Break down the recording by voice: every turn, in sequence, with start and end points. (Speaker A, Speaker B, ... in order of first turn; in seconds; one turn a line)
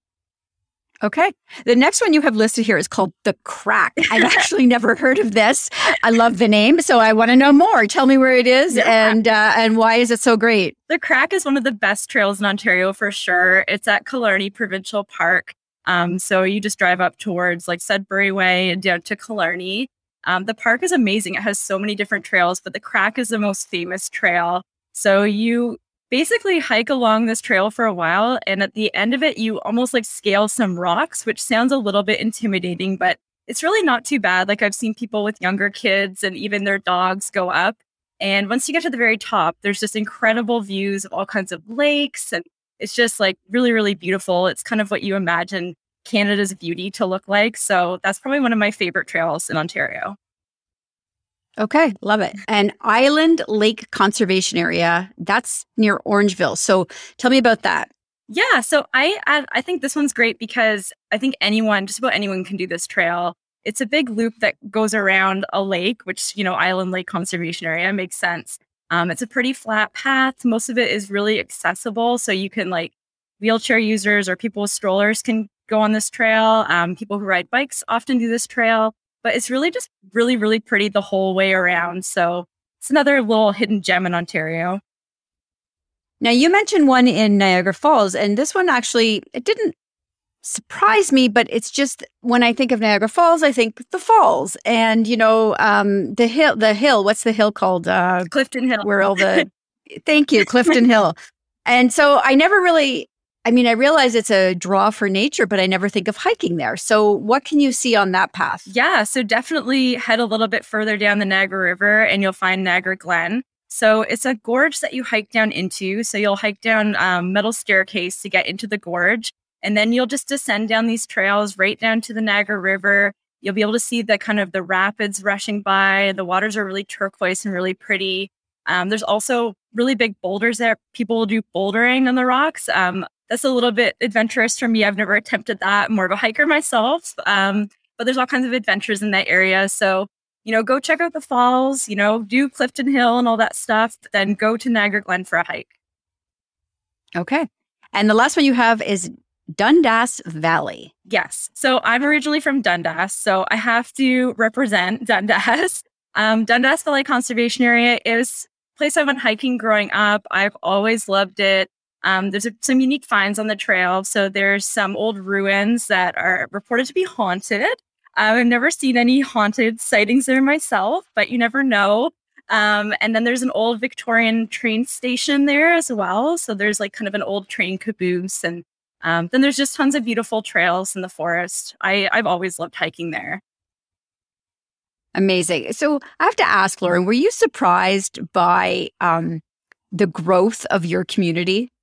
Speaker A: 1.0-10.8
Speaker B: 8.7-9.2
Speaker B: 10.9-50.1
Speaker A: 51.6-57.9
Speaker B: 58.3-84.8
Speaker A: 86.2-89.7
Speaker A: 90.4-108.7
Speaker B: 98.3-99.5
Speaker B: 108.7-145.7
Speaker A: 147.2-150.9
Speaker B: 151.1-183.4
Speaker A: 185.1-191.7